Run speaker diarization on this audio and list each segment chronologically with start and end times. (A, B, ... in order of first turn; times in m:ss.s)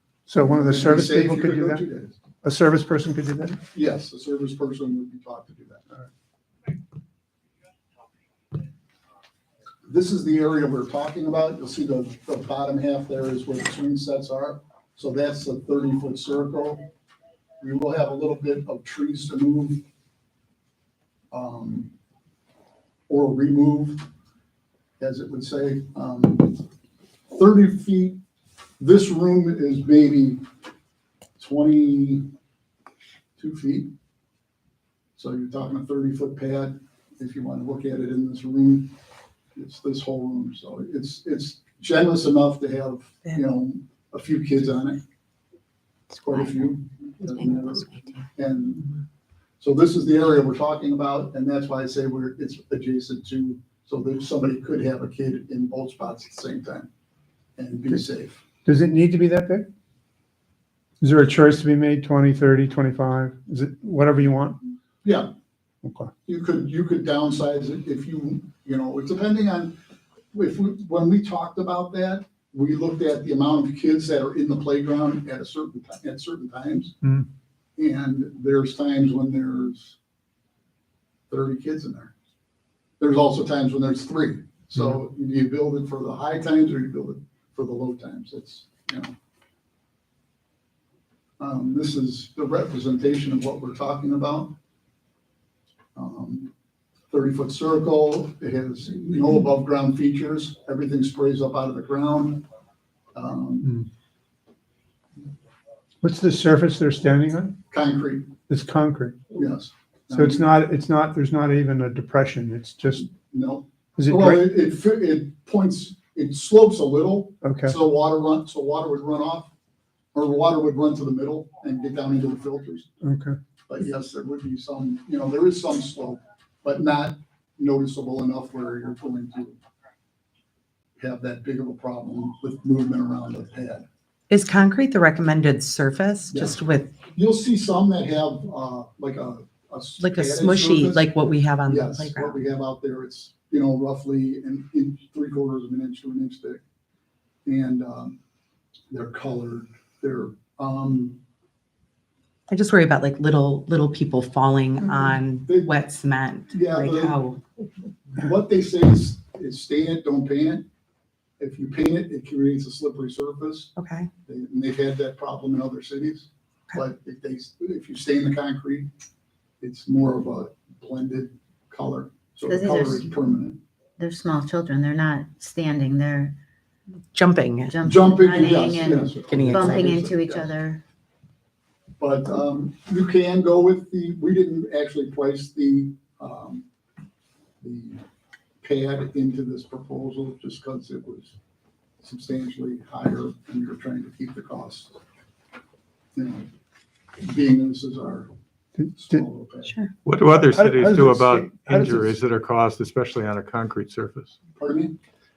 0:00.3-0:01.9 A
0:00.4-0:02.2 B
0:02.4-0:03.6 A
0:03.7-0:05.8 B
0:09.9-0:16.8 B
0:17.6-0:19.8 B
0:21.3-0:21.9 B
0:23.1-0:24.1 B
0:25.0-0:26.6 B
0:27.3-0:28.2 B
0:28.8-0:30.4 B
0:31.4-0:32.3 B
0:33.4-0:33.9 B
0:35.2-0:38.9 B
0:39.6-0:45.0 B
0:46.2-0:49.0 B
0:47.8-0:48.2 C
0:49.6-0:56.9 B
0:57.6-0:58.4 B
0:58.7-0:59.7 A
1:01.0-1:04.6 A
1:05.0-1:05.3 B
1:05.8-1:06.1 A
1:06.3-1:09.8 B
1:10.3-1:17.0 B
1:17.8-1:20.0 B
1:21.3-1:22.1 B
1:23.0-1:29.1 B
1:31.4-1:34.6 B
1:36.0-1:36.5 B
1:37.1-1:42.4 B
1:43.2-1:43.7 B
1:46.0-1:47.6 A
1:47.7-1:48.4 B
1:48.5-1:49.3 A
1:49.3-1:50.5 B
1:50.1-1:53.1 A
1:53.1-1:59.5 B
1:54.0-1:54.5 A
1:57.4-1:57.8 A
2:00.1-2:02.9 B
2:03.0-2:03.4 A
2:03.7-2:09.6 B
2:11.0-2:13.9 B
2:14.3-2:17.0 D
2:16.3-2:16.6 B
2:17.2-2:21.1 B
2:20.0-2:22.4 D
2:21.6-2:26.6 B
2:27.5-2:28.2 B
2:28.9-2:31.2 B
2:32.5-2:37.4 D
2:34.8-2:35.7 B
2:36.5-2:37.2 B
2:38.1-2:40.7 B
2:41.4-2:43.7 B
2:43.8-2:44.1 D
2:44.3-2:48.9 B
2:49.6-2:53.6 B
2:52.4-2:53.1 C
2:54.0-2:56.4 C
2:57.1-2:57.8 D
2:57.7-3:00.8 C
2:57.8-3:00.5 B
2:59.2-3:00.0 D
3:02.0-3:06.7 B
3:07.6-3:08.0 B
3:08.6-3:11.4 B
3:12.0-3:15.0 B
3:16.2-3:16.5 B
3:17.2-3:18.3 B
3:18.8-3:19.2 A
3:18.9-3:19.7 B
3:19.6-3:19.9 D
3:20.0-3:24.4 E
3:20.3-3:22.2 A
3:24.6-3:25.0 B